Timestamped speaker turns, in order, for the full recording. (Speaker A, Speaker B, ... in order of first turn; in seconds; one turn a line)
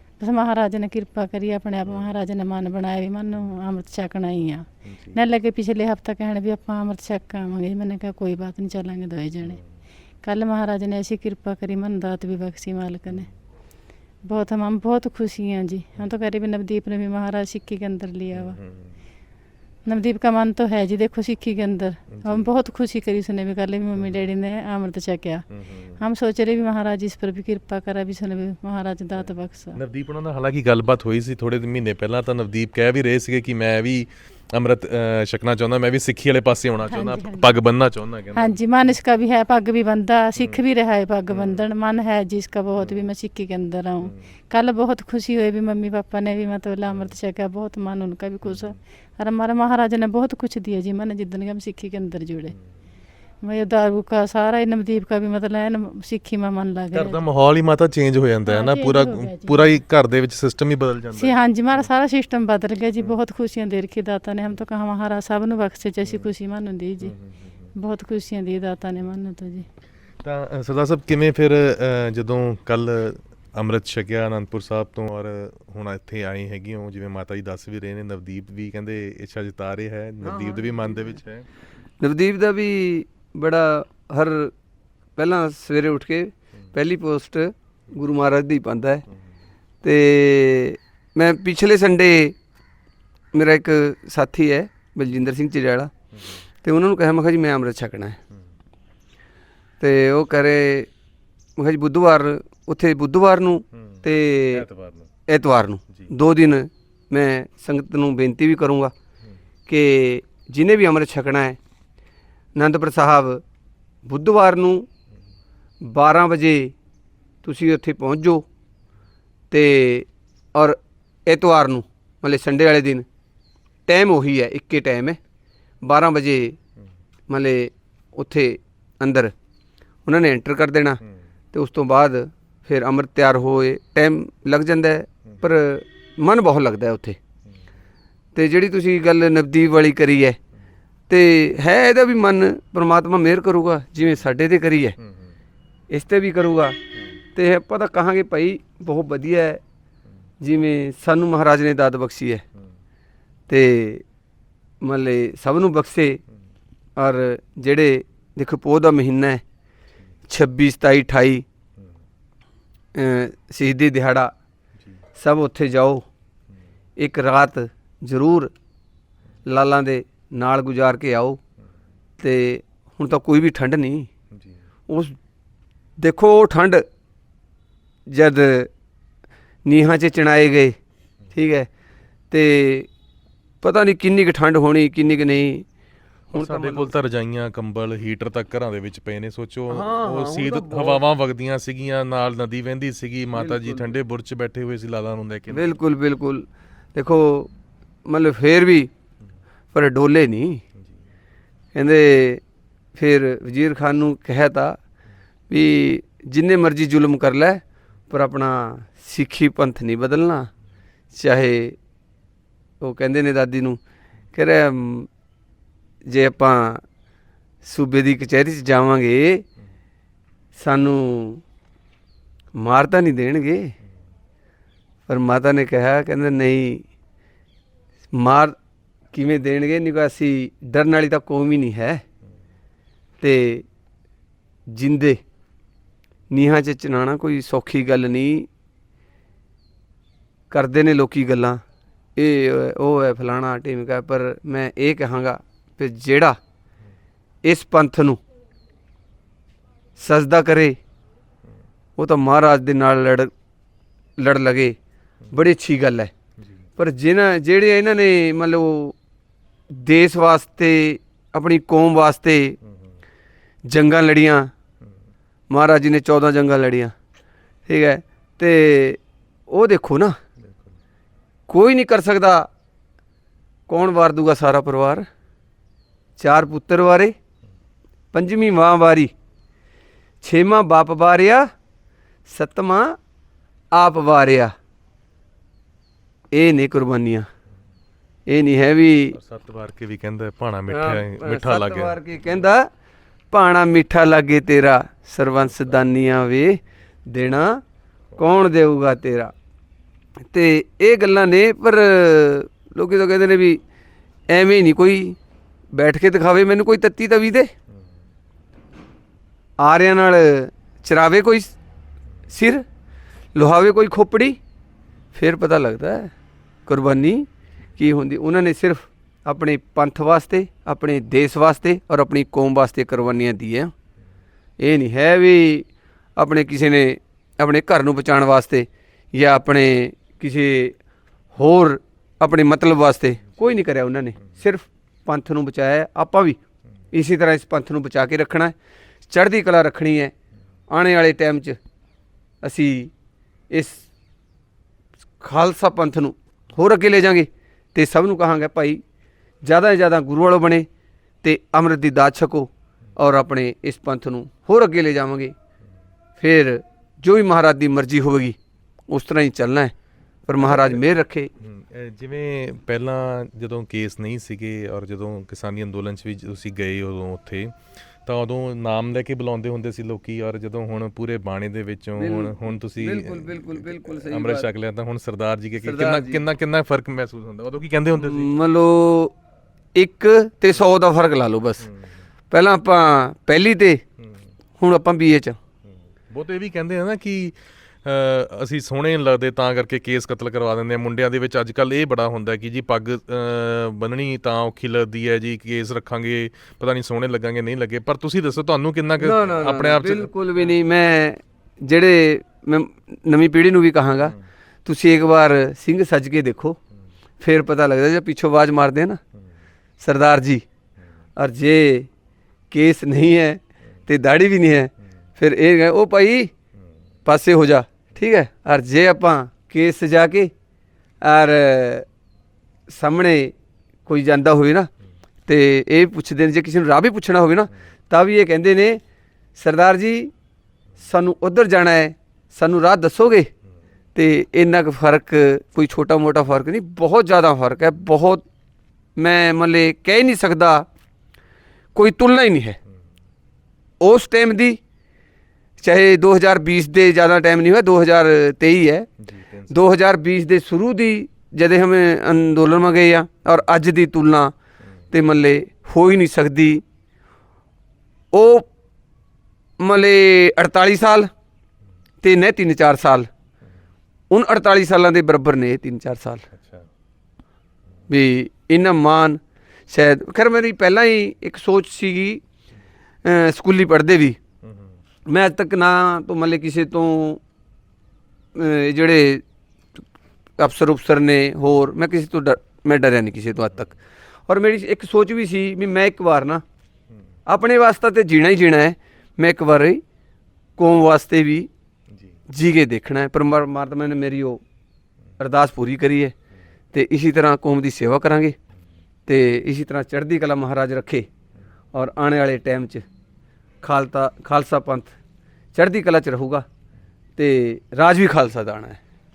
Speaker A: 0.2-9.6
Speaker B: 1.8-2.1
Speaker B: 4.8-5.2
Speaker A: 10.2-13.3
Speaker A: 14.2-18.6
Speaker B: 18.3-19.0
Speaker A: 19.9-25.4
Speaker B: 22.1-22.5
Speaker B: 23.9-24.3
Speaker B: 25.5-26.0
Speaker A: 26.0-29.8
Speaker B: 29.2-38.9
Speaker A: 36.9-37.5
Speaker A: 38.3-52.5
Speaker B: 41.3-41.6
Speaker B: 42.8-43.1
Speaker B: 44.0-44.3
Speaker B: 46.9-47.1
Speaker B: 48.4-48.8
Speaker A: 53.4-57.2
Speaker B: 56.9-61.9
Speaker A: 58.5-59.7
Speaker A: 61.1-67.1
Speaker B: 66.0-66.3
Speaker B: 67.0-67.7
Speaker A: 67.8-69.7
Speaker B: 70.2-81.5
Speaker C: 80.2-80.7
Speaker C: 82.0-84.5
Speaker C: 85.2-89.0
Speaker C: 89.8-92.3
Speaker C: 93.3-95.9
Speaker B: 96.1-96.4
Speaker C: 96.6-98.2
Speaker C: 99.8-100.9
Speaker C: 101.6-104.7
Speaker B: 103.8-105.1
Speaker C: 105.3-108.9
Speaker C: 109.7-111.6
Speaker C: 112.5-113.4
Speaker C: 114.0-114.9
Speaker C: 115.8-116.7
Speaker C: 117.4-118.4
Speaker C: 119.5-123.0
Speaker C: 123.9-125.2
Speaker C: 125.8-126.6
Speaker C: 127.3-129.3
Speaker C: 130.1-131.0
Speaker C: 131.5-137.2
Speaker C: 138.3-140.4
Speaker C: 141.1-144.9
Speaker B: 145.0-145.3
Speaker C: 145.9-146.8
Speaker C: 147.3-149.6
Speaker C: 150.4-152.4
Speaker C: 153.5-154.0
Speaker C: 154.8-156.2
Speaker C: 157.0-159.4
Speaker C: 160.3-161.4
Speaker C: 162.9-164.3
Speaker C: 165.2-166.1
Speaker C: 167.0-168.5
Speaker C: 169.4-171.4
Speaker C: 172.2-174.1
Speaker B: 174.3-174.6
Speaker C: 174.9-175.2
Speaker C: 176.0-176.8
Speaker C: 178.1-178.7
Speaker C: 179.7-180.8
Speaker C: 181.3-181.7
Speaker C: 182.3-182.9
Speaker C: 183.6-185.7
Speaker C: 186.3-186.9
Speaker B: 186.3-195.7
Speaker C: 189.7-191.0
Speaker C: 193.3-193.9
Speaker C: 195.5-197.5
Speaker C: 198.1-198.9
Speaker C: 199.7-200.6
Speaker C: 201.7-202.4
Speaker C: 202.9-204.8
Speaker C: 205.5-210.5
Speaker C: 211.1-211.8
Speaker C: 212.8-213.8
Speaker C: 214.3-215.1
Speaker C: 216.1-216.8
Speaker C: 217.6-219.4
Speaker C: 220.6-221.4
Speaker C: 222.6-223.7
Speaker C: 225.1-226.8
Speaker C: 228.1-228.6
Speaker C: 229.1-232.0
Speaker C: 233.2-233.7
Speaker C: 234.7-235.2
Speaker C: 236.3-238.5
Speaker C: 240.5-241.6
Speaker C: 242.2-246.4
Speaker C: 247.4-248.2
Speaker C: 250.0-250.8
Speaker C: 252.0-253.3
Speaker C: 254.2-254.8
Speaker C: 255.3-256.1
Speaker B: 256.4-256.7
Speaker C: 256.8-258.9
Speaker C: 259.7-262.6
Speaker B: 262.7-263.0
Speaker C: 263.7-264.5
Speaker C: 265.5-266.9
Speaker C: 267.7-270.2
Speaker B: 270.4-270.7
Speaker C: 271.5-272.5
Speaker C: 273.7-275.1
Speaker C: 276.2-277.1
Speaker C: 278.1-279.1
Speaker C: 280.2-281.5
Speaker C: 282.3-283.0
Speaker C: 283.7-284.5
Speaker C: 286.3-287.3
Speaker C: 288.3-289.2
Speaker B: 289.1-292.0
Speaker C: 290.7-292.7
Speaker C: 293.3-297.6
Speaker C: 298.2-299.3
Speaker C: 300.3-303.6
Speaker C: 304.3-305.2
Speaker C: 305.7-307.5
Speaker C: 309.6-311.5
Speaker C: 312.3-312.6
Speaker C: 313.3-314.4
Speaker C: 315.1-316.1
Speaker C: 316.7-323.7
Speaker C: 324.6-330.8
Speaker C: 331.3-336.4
Speaker C: 336.9-338.5
Speaker C: 339.1-340.1
Speaker C: 340.7-341.6
Speaker C: 342.4-342.9
Speaker C: 343.5-343.9
Speaker C: 345.2-348.8
Speaker C: 349.4-350.7
Speaker C: 351.2-355.3
Speaker C: 356.2-358.4
Speaker C: 358.9-359.7
Speaker C: 360.3-361.3
Speaker B: 360.4-360.8
Speaker B: 361.4-378.3
Speaker C: 372.0-374.5
Speaker C: 375.6-376.2
Speaker C: 377.9-379.1
Speaker C: 379.7-381.7
Speaker B: 381.6-381.9
Speaker C: 382.3-383.8
Speaker B: 384.0-384.3
Speaker C: 384.6-385.4
Speaker B: 385.7-400.1
Speaker C: 399.0-404.1
Speaker C: 404.6-406.6
Speaker C: 407.2-409.0
Speaker C: 409.8-410.4
Speaker C: 411.2-411.9
Speaker C: 412.5-416.3
Speaker C: 417.0-420.3
Speaker C: 421.0-421.9
Speaker C: 422.7-423.3
Speaker C: 423.9-424.7
Speaker C: 425.2-428.8
Speaker C: 429.4-430.1
Speaker C: 430.8-433.3
Speaker C: 433.9-438.2
Speaker C: 439.0-440.6
Speaker C: 441.7-442.6
Speaker C: 443.8-444.6
Speaker C: 445.6-448.9
Speaker B: 449.0-449.6
Speaker C: 449.5-454.3
Speaker C: 454.9-456.6
Speaker C: 458.1-458.5
Speaker C: 459.6-461.1
Speaker C: 462.0-463.1
Speaker C: 464.1-466.2
Speaker B: 466.3-466.7
Speaker C: 467.9-472.2
Speaker C: 473.0-474.2
Speaker B: 474.4-474.8
Speaker C: 475.1-477.2
Speaker C: 478.3-479.2
Speaker C: 480.4-483.7
Speaker C: 484.3-486.4
Speaker C: 487.3-489.8
Speaker C: 490.6-491.5
Speaker B: 491.9-492.2
Speaker C: 492.3-494.4
Speaker C: 495.2-496.1
Speaker C: 496.7-498.4
Speaker C: 499.1-501.1
Speaker C: 501.7-502.9
Speaker C: 503.6-504.9
Speaker C: 505.5-506.4
Speaker C: 507.2-508.8